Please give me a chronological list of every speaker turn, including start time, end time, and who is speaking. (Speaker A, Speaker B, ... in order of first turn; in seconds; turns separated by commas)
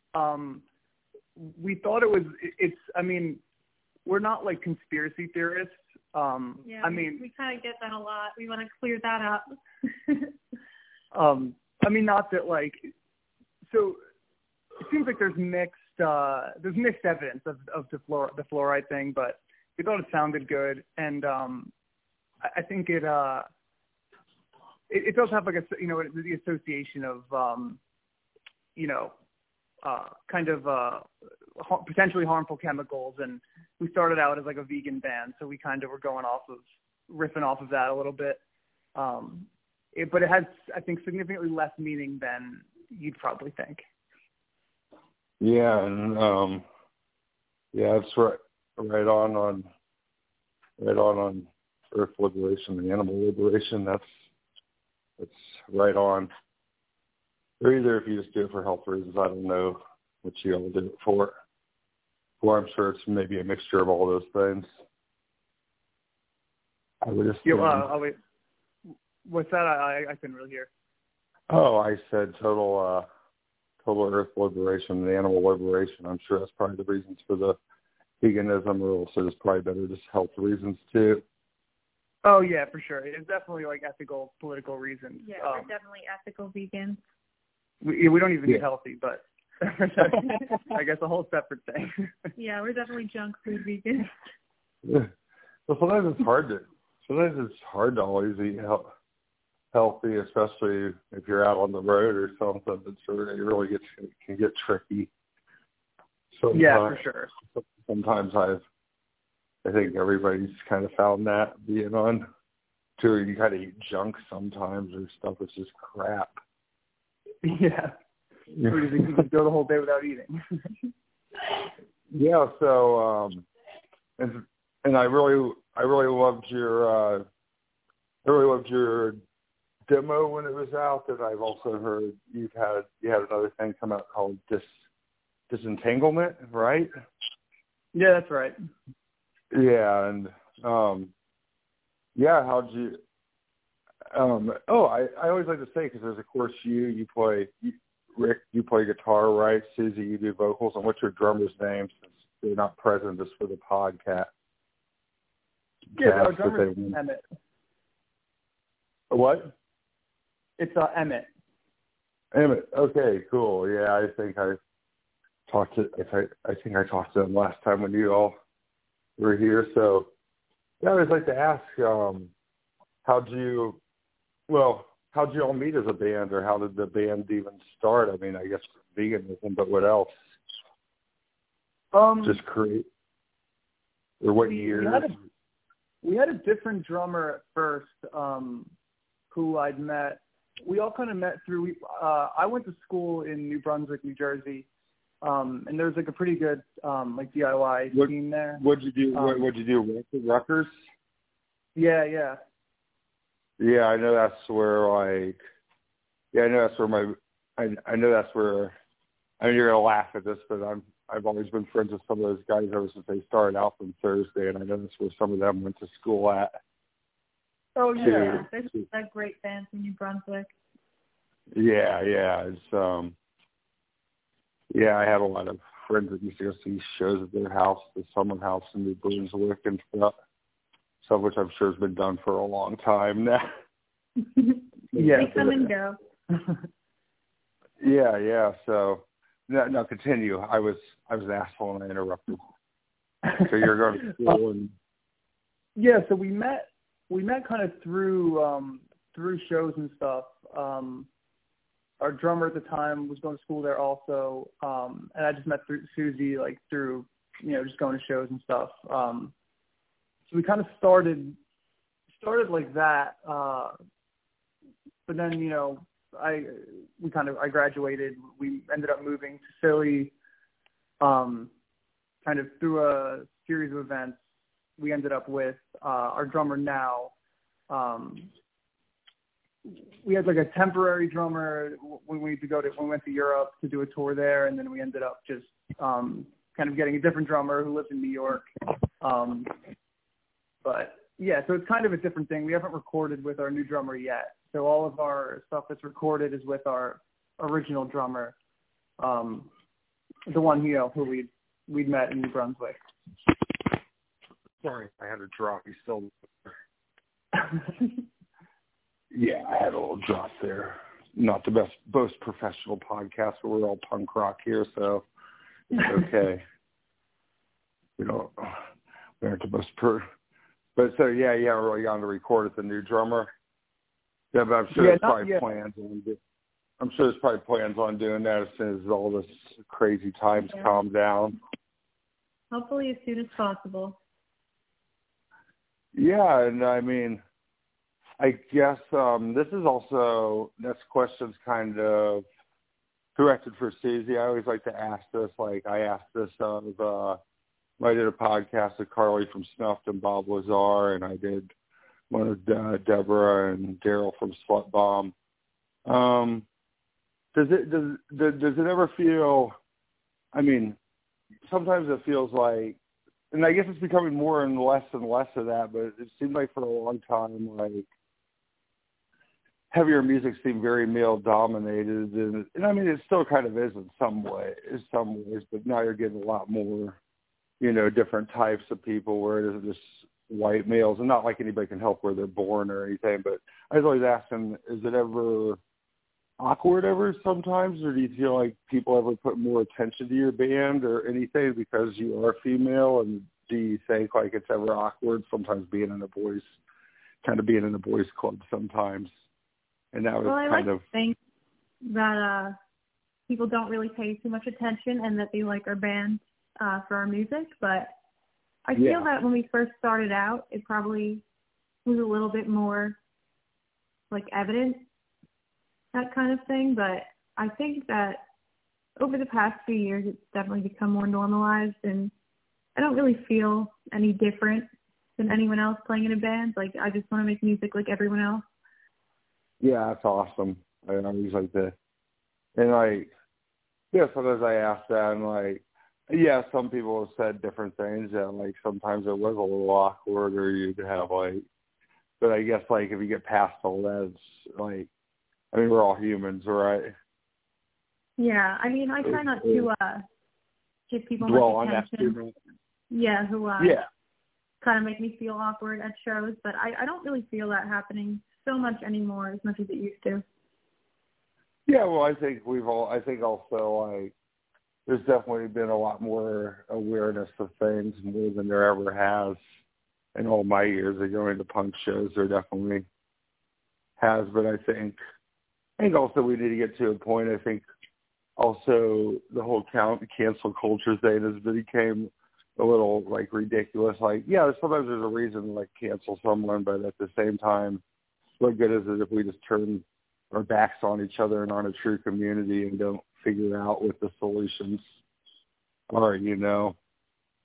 Speaker A: 0.1-0.6, Speaker A: 1.4-3.4, Speaker A: 4.1-7.2, Speaker B: 6.7-9.5, Speaker B: 10.1-10.3, Speaker A: 11.1-12.8, Speaker A: 13.7-14.0, Speaker A: 14.8-21.7, Speaker A: 22.4-23.5, Speaker A: 24.9-27.8, Speaker A: 28.8-29.1, Speaker A: 29.8-38.4, Speaker A: 39.0-43.9, Speaker C: 45.4-46.6, Speaker C: 47.7-49.7, Speaker C: 50.8-54.1, Speaker C: 55.2-56.3, Speaker C: 57.6-61.3, Speaker C: 62.4-64.7, Speaker C: 67.0-67.9, Speaker A: 67.4-68.2, Speaker A: 69.2-70.7, Speaker C: 71.5-73.1, Speaker C: 73.8-77.6, Speaker C: 78.2-81.2, Speaker A: 82.2-85.7, Speaker B: 85.2-87.0, Speaker A: 87.8-92.3, Speaker B: 92.4-94.1, Speaker C: 94.8-95.1, Speaker C: 95.7-98.9, Speaker C: 99.7-105.1, Speaker C: 106.4-107.0, Speaker A: 106.5-107.3, Speaker C: 107.6-108.6, Speaker C: 109.6-112.3, Speaker C: 113.0-116.3, Speaker A: 117.4-118.0, Speaker C: 118.5-119.0, Speaker A: 118.7-120.8, Speaker C: 122.1-123.5, Speaker C: 124.2-127.2, Speaker C: 128.2-129.2, Speaker C: 129.9-134.7, Speaker C: 135.5-136.9, Speaker A: 137.9-138.6, Speaker C: 139.5-141.1, Speaker C: 142.2-143.0, Speaker C: 144.1-154.3, Speaker C: 155.9-157.0, Speaker A: 156.0-157.2, Speaker C: 159.1-159.5, Speaker A: 160.6-161.3, Speaker C: 162.3-164.6, Speaker C: 165.5-168.4, Speaker C: 169.2-170.1, Speaker C: 170.8-172.3, Speaker C: 173.0-173.8, Speaker C: 174.5-180.2, Speaker A: 181.9-182.4, Speaker C: 182.2-182.9, Speaker C: 184.2-185.1, Speaker A: 184.4-185.2, Speaker A: 186.0-188.7, Speaker A: 189.3-194.7, Speaker A: 195.2-198.6, Speaker C: 197.9-200.7, Speaker A: 199.1-199.5, Speaker A: 201.8-202.4, Speaker C: 203.6-205.4, Speaker C: 206.3-208.7, Speaker C: 209.4-216.6, Speaker B: 217.8-220.5, Speaker C: 218.0-218.8, Speaker A: 218.0-218.3, Speaker C: 221.5-223.2, Speaker C: 224.7-230.1, Speaker C: 231.0-233.5, Speaker C: 234.9-235.7, Speaker A: 234.9-235.7, Speaker B: 235.1-236.0, Speaker C: 237.8-242.4, Speaker C: 243.4-244.7, Speaker A: 245.8-251.1, Speaker A: 252.0-259.3, Speaker A: 260.3-261.4, Speaker A: 262.1-263.7, Speaker A: 265.1-270.1, Speaker A: 271.0-271.5, Speaker A: 272.2-274.2, Speaker A: 274.8-277.1, Speaker A: 277.7-278.3, Speaker A: 279.7-288.5, Speaker A: 289.0-289.5, Speaker A: 290.6-298.4, Speaker A: 299.0-299.5, Speaker A: 300.3-302.8, Speaker C: 304.6-306.1, Speaker C: 309.1-315.0, Speaker C: 315.7-316.4, Speaker C: 318.0-318.6, Speaker C: 319.2-320.1, Speaker C: 320.8-323.3, Speaker C: 324.3-326.2, Speaker A: 324.7-325.5, Speaker C: 326.8-331.4, Speaker B: 332.5-334.0, Speaker C: 335.9-337.2, Speaker C: 338.2-342.2, Speaker C: 343.2-347.2, Speaker C: 347.8-351.5, Speaker C: 352.1-355.1, Speaker C: 355.9-356.5, Speaker C: 357.3-359.6, Speaker C: 360.3-360.8, Speaker C: 361.5-362.8, Speaker C: 363.3-367.9, Speaker C: 369.7-377.0, Speaker C: 377.6-385.6, Speaker C: 386.4-396.5, Speaker C: 397.2-399.1, Speaker C: 399.9-400.8, Speaker B: 400.2-401.2, Speaker B: 401.8-402.6, Speaker B: 403.3-407.9, Speaker B: 408.7-411.2, Speaker C: 408.8-409.1, Speaker B: 411.9-413.0, Speaker B: 414.1-414.8, Speaker B: 415.9-418.2, Speaker B: 419.0-422.1, Speaker B: 422.8-424.7, Speaker B: 425.2-428.4, Speaker C: 429.6-431.8, Speaker C: 432.6-433.1, Speaker C: 433.9-441.4, Speaker C: 442.2-444.9, Speaker C: 445.5-446.9, Speaker B: 448.2-450.1, Speaker C: 449.0-449.7, Speaker B: 450.9-452.2, Speaker C: 451.2-452.4, Speaker B: 452.9-453.8, Speaker C: 453.6-453.9, Speaker B: 454.6-460.2, Speaker C: 461.7-464.1, Speaker C: 464.9-469.4, Speaker C: 470.1-472.9, Speaker C: 474.0-475.0, Speaker C: 475.8-477.6, Speaker C: 478.4-487.8, Speaker C: 488.4-494.9, Speaker C: 495.9-496.8